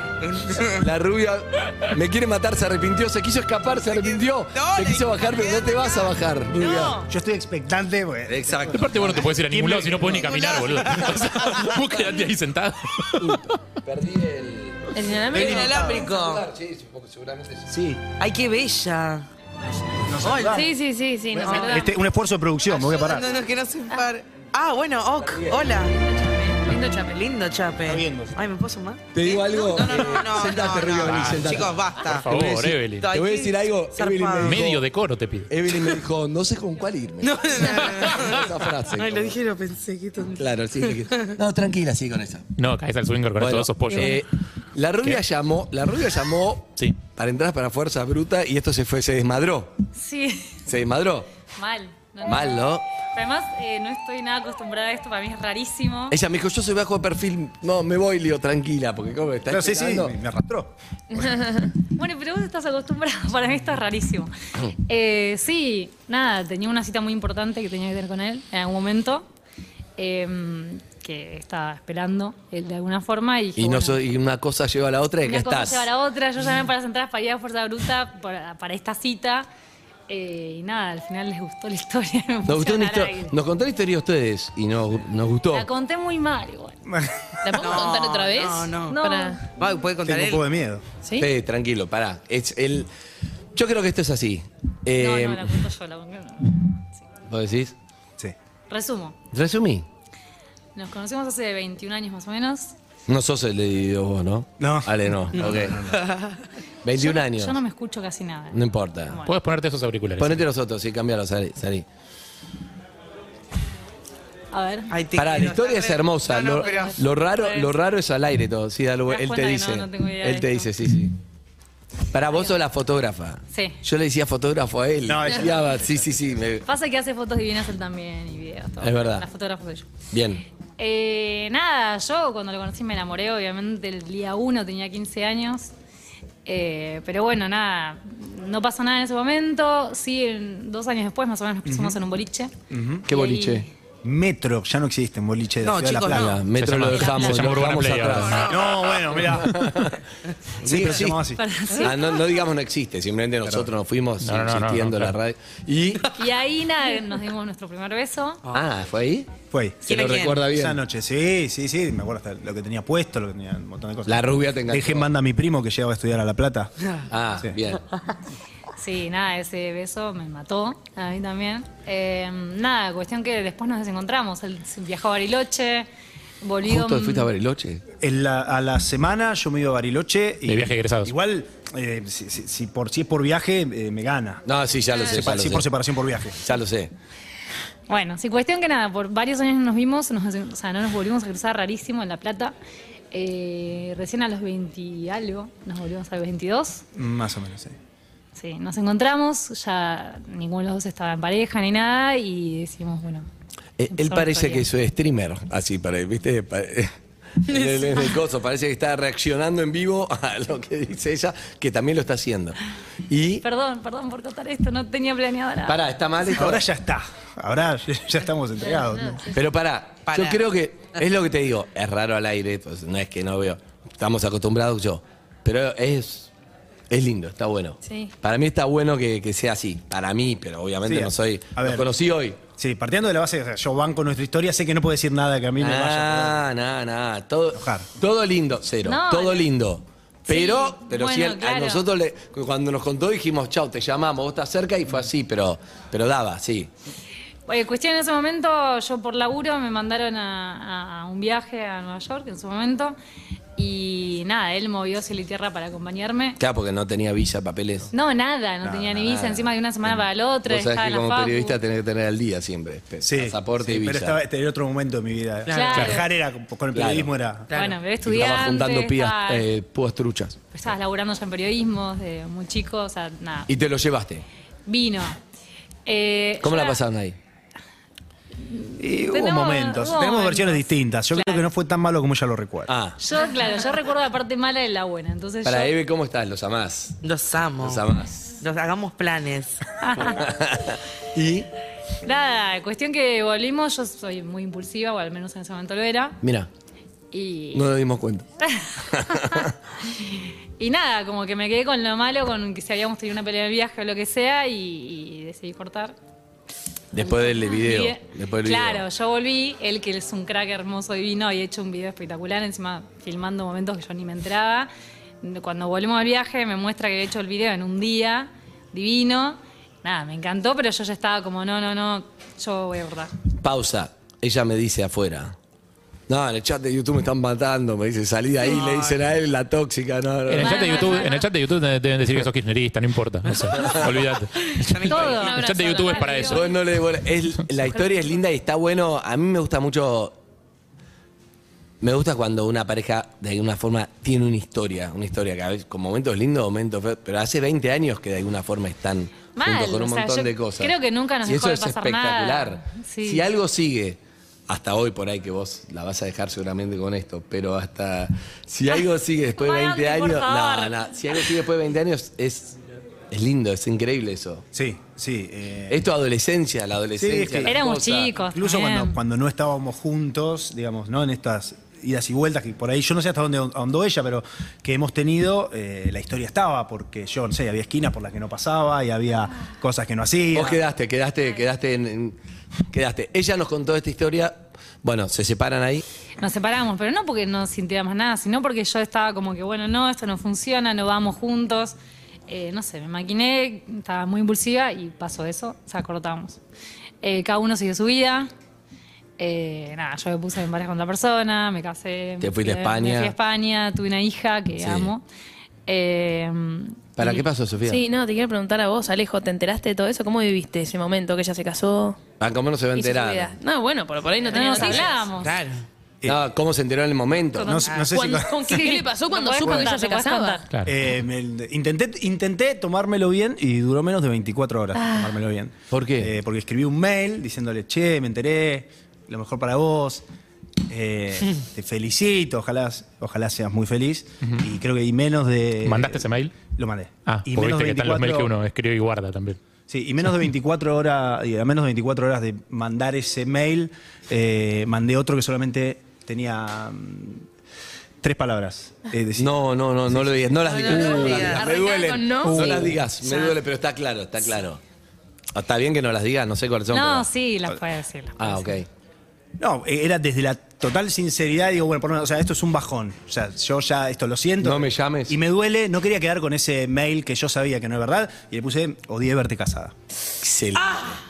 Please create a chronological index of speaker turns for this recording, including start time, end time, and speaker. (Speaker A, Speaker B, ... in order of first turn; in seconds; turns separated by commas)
Speaker A: 0.2-0.8, Speaker B: 0.5-7.0, Speaker A: 3.9-7.0, Speaker C: 7.0-11.2, Speaker B: 8.3-9.0, Speaker D: 8.7-13.4, Speaker B: 13.2-17.7, Speaker E: 14.9-15.8, Speaker C: 15.3-16.1, Speaker A: 15.3-16.4, Speaker C: 17.7-18.0, Speaker A: 18.2-19.3, Speaker C: 20.0-20.7, Speaker A: 20.2-20.6, Speaker E: 20.5-22.0, Speaker C: 21.3-23.2, Speaker A: 22.7-34.8, Speaker B: 25.3-25.6, Speaker C: 27.9-28.4, Speaker B: 29.1-34.8, Speaker C: 31.1-31.6, Speaker D: 32.1-33.1, Speaker D: 34.4-35.5, Speaker B: 35.5-39.4, Speaker A: 37.2-41.3, Speaker B: 40.4-42.5, Speaker D: 42.6-44.2, Speaker B: 43.4-49.8, Speaker F: 49.9-50.6, Speaker B: 50.6-51.3, Speaker F: 51.5-56.1, Speaker B: 52.2-52.8, Speaker B: 56.1-60.1, Speaker C: 59.5-61.5, Speaker E: 61.2-61.5, Speaker F: 61.9-69.2, Speaker F: 70.0-74.0, Speaker B: 73.6-75.9, Speaker F: 75.2-79.5, Speaker F: 80.1-83.3, Speaker B: 82.5-85.7, Speaker F: 85.5-86.8, Speaker C: 86.9-87.3, Speaker E: 87.4-89.5, Speaker A: 87.5-90.4, Speaker F: 88.9-89.4, Speaker C: 90.0-90.8, Speaker E: 91.0-91.3, Speaker B: 91.2-92.9, Speaker B: 93.5-95.6, Speaker F: 95.0-96.6, Speaker B: 97.3-97.7, Speaker F: 98.7-99.2, Speaker B: 99.3-99.8, Speaker F: 100.7-102.7, Speaker B: 103.1-105.8, Speaker C: 104.6-106.0, Speaker A: 105.4-106.3, Speaker B: 106.8-107.6, Speaker F: 106.9-109.3, Speaker B: 108.5-109.2, Speaker D: 109.2-110.5, Speaker B: 110.2-111.8, Speaker F: 114.5-114.9, Speaker A: 114.9-117.0, Speaker B: 115.1-121.2, Speaker F: 116.6-117.8, Speaker F: 119.1-120.7, Speaker B: 122.1-126.7, Speaker F: 122.3-122.6, Speaker F: 123.5-123.8, Speaker C: 125.0-126.3, Speaker F: 126.7-129.9, Speaker B: 128.8-129.2, Speaker B: 130.1-130.4, Speaker F: 130.8-135.7, Speaker F: 136.4-142.5, Speaker C: 141.6-142.0, Speaker C: 142.7-143.1, Speaker B: 143.1-143.7, Speaker F: 143.1-143.7, Speaker C: 144.0-146.4, Speaker A: 145.6-146.5, Speaker B: 146.1-150.1, Speaker D: 146.5-148.5, Speaker C: 148.4-149.6, Speaker B: 150.6-151.3, Speaker C: 150.6-151.4, Speaker F: 151.3-152.3, Speaker B: 151.8-156.1, Speaker D: 154.2-155.2, Speaker F: 156.1-158.4, Speaker B: 158.5-159.3, Speaker C: 159.5-166.7, Speaker B: 159.8-160.8, Speaker A: 159.9-160.4, Speaker B: 164.1-165.1, Speaker B: 167.1-167.8, Speaker F: 168.8-175.9, Speaker F: 176.4-177.3, Speaker B: 176.6-177.8, Speaker C: 178.0-186.4, Speaker D: 180.5-181.1, Speaker B: 184.4-185.7, Speaker B: 186.4-186.9, Speaker F: 187.9-192.5, Speaker F: 193.1-196.8, Speaker C: 196.9-197.8, Speaker F: 198.3-203.2, Speaker B: 203.8-213.4, Speaker F: 203.9-204.7, Speaker F: 213.4-215.8, Speaker B: 215.7-216.6, Speaker C: 216.3-219.3, Speaker B: 219.3-226.3, Speaker A: 220.0-220.4, Speaker B: 226.9-232.4, Speaker C: 230.8-231.9, Speaker C: 232.6-236.4, Speaker B: 235.6-246.7, Speaker C: 237.5-237.9, Speaker F: 238.8-239.5, Speaker F: 240.3-241.8, Speaker F: 247.5-252.9, Speaker F: 253.6-256.4, Speaker B: 256.4-257.9, Speaker F: 257.9-261.6, Speaker C: 258.6-259.0, Speaker B: 259.0-264.2, Speaker C: 263.0-267.5, Speaker A: 265.4-265.9, Speaker F: 265.5-266.1, Speaker B: 266.7-267.1, Speaker A: 267.5-267.8, Speaker F: 267.5-269.4, Speaker B: 268.0-270.4, Speaker F: 270.5-273.5, Speaker B: 273.5-274.2, Speaker F: 274.7-275.2, Speaker F: 275.9-276.8, Speaker B: 276.4-277.2, Speaker F: 278.5-281.5, Speaker C: 278.8-282.7, Speaker B: 282.7-283.0, Speaker F: 283.0-285.7, Speaker B: 285.4-287.0, Speaker A: 287.0-287.9, Speaker B: 287.6-288.3, Speaker A: 288.4-289.6, Speaker F: 289.8-290.2, Speaker B: 290.0-291.5, Speaker F: 292.0-296.2, Speaker B: 296.2-296.5, Speaker F: 297.1-297.7, Speaker B: 297.5-298.2, Speaker F: 298.4-305.9, Speaker B: 298.8-299.5, Speaker B: 306.9-308.9, Speaker F: 306.9-314.7, Speaker F: 315.2-323.1, Speaker B: 323.4-325.4, Speaker B: 326.1-331.1, Speaker A: 328.5-329.0, Speaker D: 330.3-336.4, Speaker F: 330.3-331.3, Speaker B: 333.6-333.9, Speaker A: 334.5-336.0, Speaker F: 334.8-336.5, Speaker B: 336.2-340.2, Speaker B: 341.8-362.6, Speaker F: 349.4-353.3, Speaker F: 359.4-361.3, Speaker B: 363.1-364.4, Speaker C: 364.5-365.8, Speaker B: 365.7-368.1, Speaker C: 367.0-380.6, Speaker F: 367.4-368.9, Speaker B: 380.3-382.1, Speaker B: 382.7-385.8, Speaker F: 386.2-391.7, Speaker F: 392.3-396.4, Speaker F: 397.0-398.3, Speaker F: 399.2-405.0, Speaker B: 402.2-403.1, Speaker B: 404.6-404.9, Speaker F: 405.7-407.2, Speaker B: 407.0-407.8, Speaker E: 407.6-412.0, Speaker B: 412.2-413.4, Speaker E: 412.7-414.9, Speaker F: 414.3-415.4, Speaker A: 414.5-415.6, Speaker B: 416.0-417.6, Speaker F: 417.3-417.8, Speaker C: 417.4-418.5, Speaker E: 417.8-420.5, Speaker F: 418.4-420.4, Speaker C: 420.6-430.0, Speaker E: 424.8-425.1, Speaker B: 425.7-426.1, Speaker C: 430.7-438.3, Speaker D: 435.6-436.4, Speaker D: 437.1-439.4, Speaker C: 439.7-447.2, Speaker C: 448.0-449.3, Speaker B: 449.2-454.6, Speaker C: 449.9-450.3, Speaker A: 450.5-451.5, Speaker E: 450.7-453.3, Speaker D: 452.2-452.7, Speaker B: 455.3-457.1, Speaker F: 456.7-458.6, Speaker B: 458.2-458.7, Speaker C: 459.4-469.7, Speaker B: 464.4-465.2, Speaker B: 470.2-471.0, Speaker A: 470.6-471.0